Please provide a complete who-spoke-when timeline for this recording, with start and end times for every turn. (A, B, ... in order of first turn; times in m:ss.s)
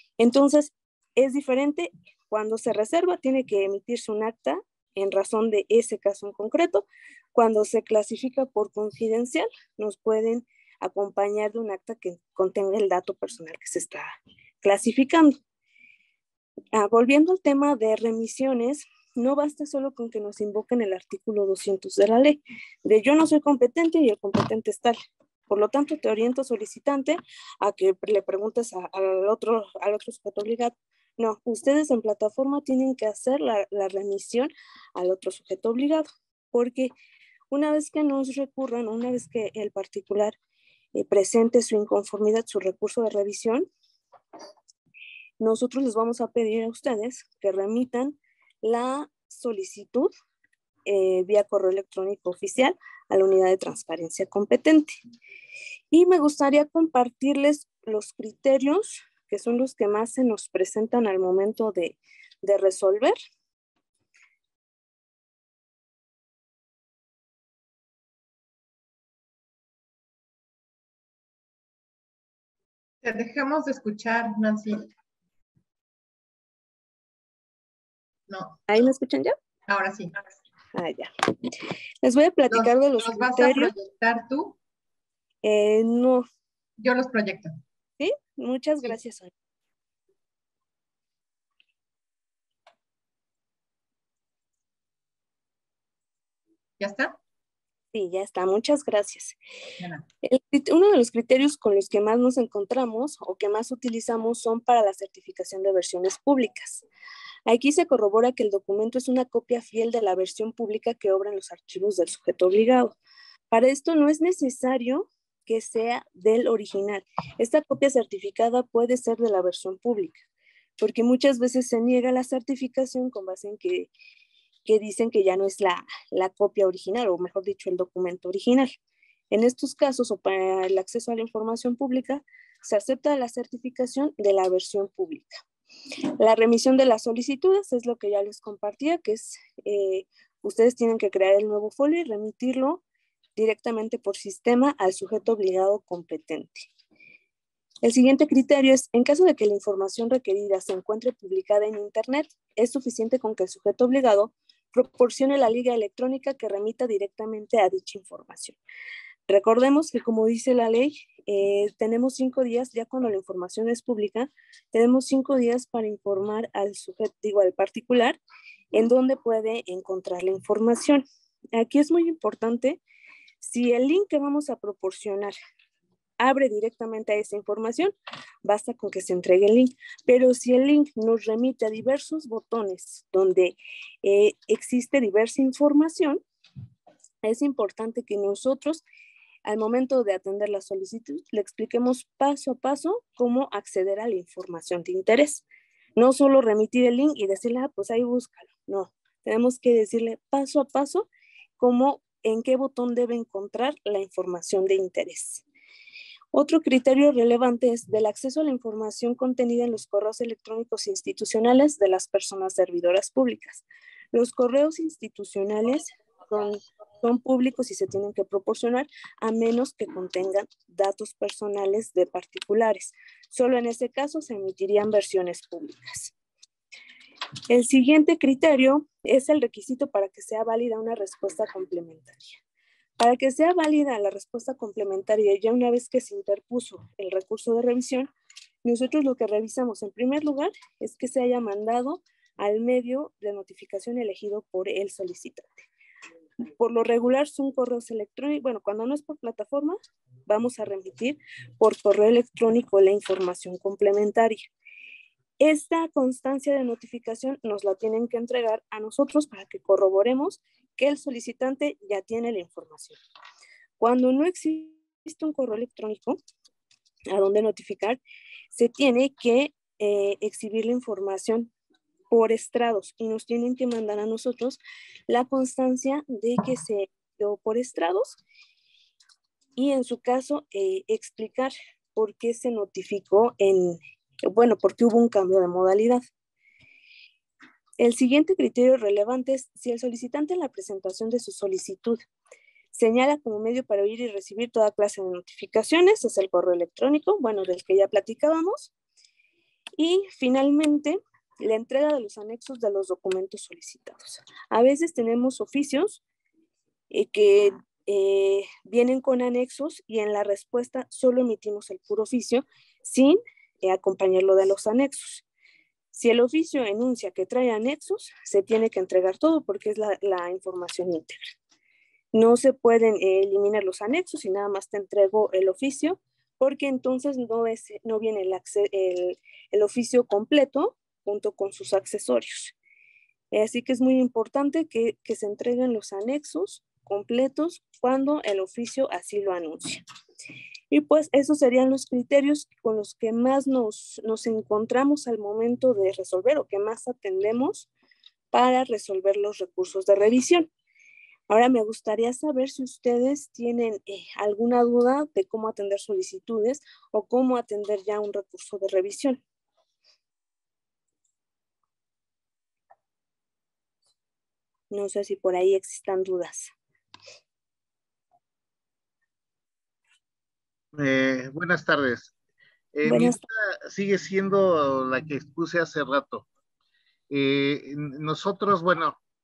0:00.2-0:15.4 A
0:16.7-0:25.0 A
0:25.5-0:36.9 A
0:37.5-0:40.4 A
0:40.9-0:43.7 A
0:45.4-0:50.1 A
0:50.8-0:54.9 A
0:55.9-1:03.2 A
1:13.0-1:14.9 B
1:18.3-1:18.6 B
1:18.7-1:19.4 A
1:19.7-1:20.2 B
1:20.7-1:21.5 A
1:22.0-1:23.7 A
1:22.5-1:24.6 B
1:25.4-1:26.2 A
1:26.8-1:27.5 B
1:28.0-1:29.3 A
1:36.8-1:37.2 B
1:37.9-1:39.4 A
1:39.8-1:40.0 B
1:40.2-1:46.8 A
1:47.4-1:53.0 A
1:53.5-2:00.2 A
2:00.8-2:03.9 A
2:04.6-2:08.7 A
2:09.3-2:15.3 A
2:16.2-2:22.8 A
2:23.4-2:26.7 A
2:27.8-2:38.6 A
2:39.3-2:48.2 A
2:48.7-2:52.8 A
2:53.4-2:55.3 A
2:56.2-3:06.2 A
3:07.2-3:08.8 A
3:09.4-3:15.4 A
3:16.0-3:21.1 A
3:21.6-3:25.4 A
3:26.3-3:46.1 A
3:47.5-3:52.4 A
3:53.0-3:58.1 A
3:58.6-4:05.6 A
4:06.6-4:14.4 A
4:15.4-4:23.0 A
4:23.8-4:26.2 A
4:27.1-4:28.0 A
4:28.5-4:31.5 A
4:32.1-4:38.2 A
4:39.6-4:46.0 A
4:47.8-4:52.0 A
4:52.7-4:58.7 A
4:59.8-5:06.0 A
5:06.9-5:15.2 A
5:15.9-5:21.2 A
5:22.1-5:32.5 A
5:33.3-5:39.8 A
5:40.7-5:47.7 A
5:48.3-5:50.5 A
5:51.3-5:59.2 A
6:04.7-6:06.5 A
6:10.7-6:12.1 C
6:12.7-6:16.2 C
6:12.8-6:13.2 A
6:17.1-6:19.0 C